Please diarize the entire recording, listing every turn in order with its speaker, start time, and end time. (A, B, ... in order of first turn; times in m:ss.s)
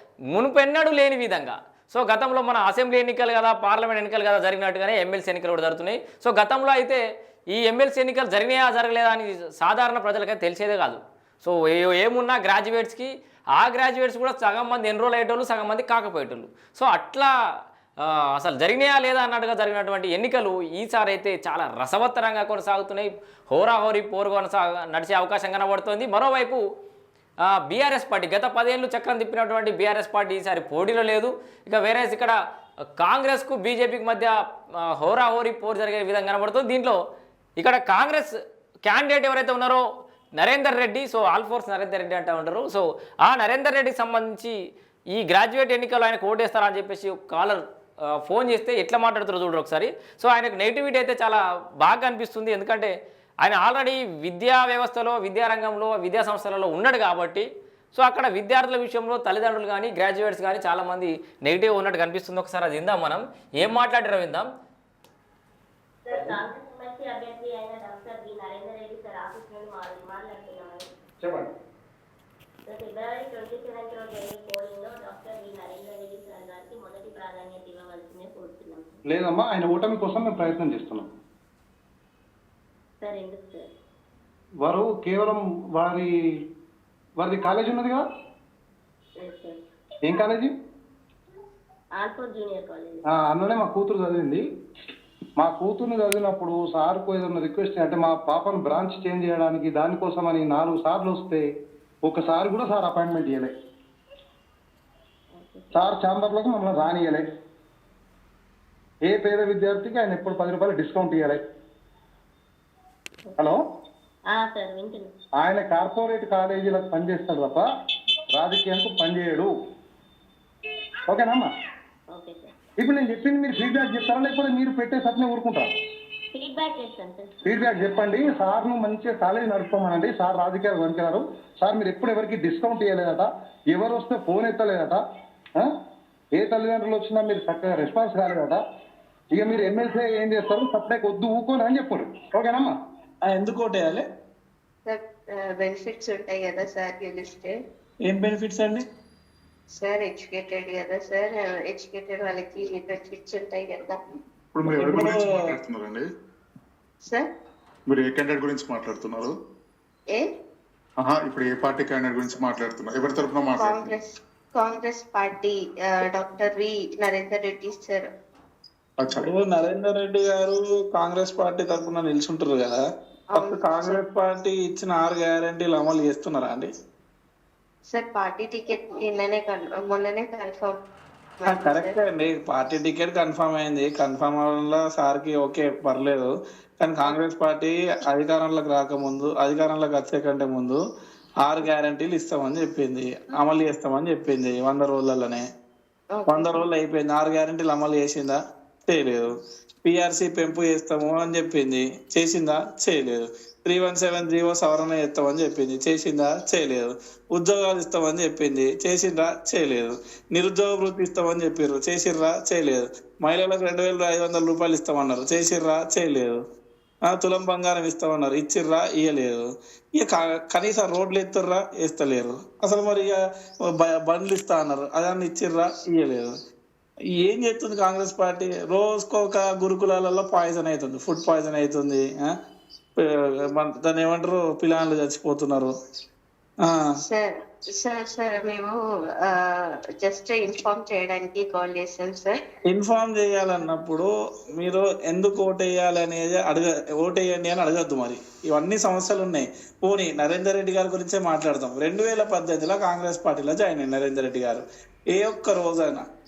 0:00.3-0:07.0 A
0:07.5-0:17.3 A
0:18.0-0:26.6 A
0:27.7-0:32.4 A
0:33.0-0:34.4 A
0:35.0-0:37.0 A
0:37.6-0:38.3 A
0:38.9-0:39.8 A
0:40.4-0:44.6 A
0:45.1-0:47.6 A
0:48.2-0:52.9 A
0:53.4-1:04.5 A
1:06.1-1:10.9 B
1:11.2-1:11.5 C
1:12.7-1:19.0 B
1:19.1-1:21.1 C
1:23.0-1:23.7 B
1:24.6-1:26.1 C
1:27.2-1:28.0 C
1:29.2-1:29.6 B
1:30.0-1:30.5 C
1:32.0-1:33.0 B
1:33.1-1:34.4 C
1:35.4-1:41.4 C
1:42.0-1:43.5 C
1:45.3-1:45.9 B
1:45.7-1:47.2 C
1:49.1-1:51.4 C
1:54.3-1:55.1 B
1:55.4-1:57.7 C
1:58.3-1:59.5 C
2:01.1-2:01.5 C
2:02.1-2:02.5 B
2:02.8-2:05.7 C
2:06.3-2:07.7 B
2:07.4-2:15.0 C
2:16.4-2:18.6 C
2:19.3-2:22.7 C
2:23.2-2:24.0 D
2:24.9-2:27.6 E
2:28.1-2:28.8 D
2:29.8-2:34.0 E
2:34.5-2:36.0 F
2:34.6-2:35.2 D
2:37.9-2:39.3 F
2:41.0-2:44.0 F
2:43.6-2:48.1 E
2:49.0-2:49.3 F
2:49.1-2:52.8 D
2:53.3-2:54.0 E
2:53.4-2:56.7 D
2:57.9-3:00.8 E
3:01.4-3:02.0 E
3:01.4-3:10.8 D
3:11.4-3:15.4 D
3:16.1-3:16.6 E
3:16.3-3:19.3 D
3:19.8-3:36.4 D
3:37.1-3:39.5 D
3:40.0-3:43.2 D
3:43.8-3:46.3 D
3:47.2-3:52.3 D
3:53.0-3:55.7 D
3:57.1-3:58.7 E
4:00.0-4:02.4 E
4:02.7-4:16.1 D